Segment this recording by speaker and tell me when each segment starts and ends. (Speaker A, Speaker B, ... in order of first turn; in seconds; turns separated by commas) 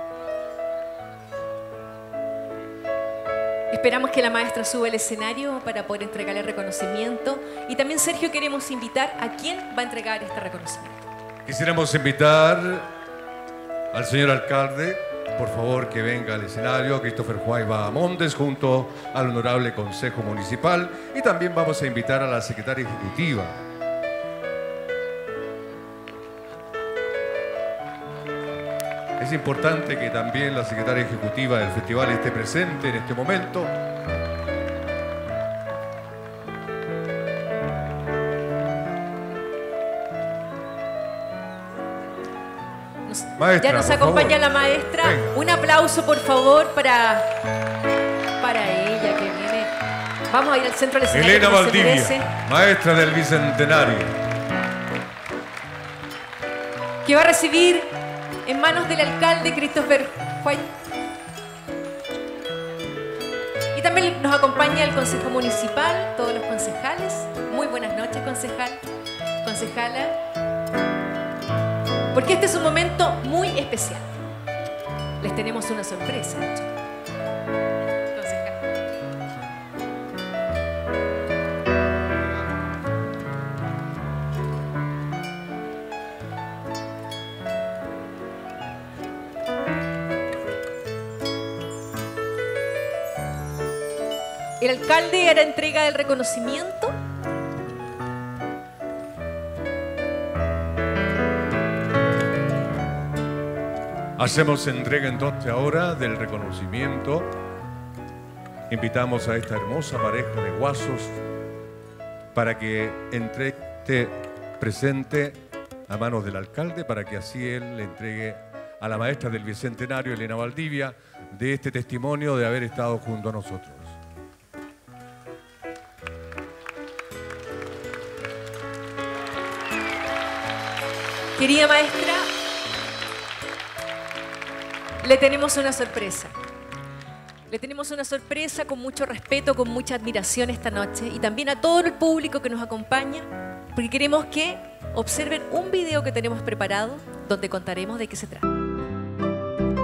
Speaker A: 3.7-11.0, Speaker B: 11.5-12.9, Speaker B: 13.9-23.6, Speaker B: 29.2-33.7, Speaker A: 43.1-47.3, Speaker B: 43.4-45.3, Speaker A: 48.4-49.7, Speaker A: 50.3-52.3, Speaker B: 51.1-54.1, Speaker A: 57.0-57.9, Speaker A: 58.5-60.6, Speaker A: 63.7-68.8, Speaker A: 69.4-70.2, Speaker A: 72.1-74.1, Speaker A: 75.2-76.7, Speaker A: 78.1-78.6, Speaker A: 94.6-96.9, Speaker B: 104.2-107.3, Speaker B: 108.7-111.2, Speaker B: 112.3-124.0, Speaker A: 131.4-132.2, Speaker A: 135.0-136.3, Speaker A: 137.5-148.5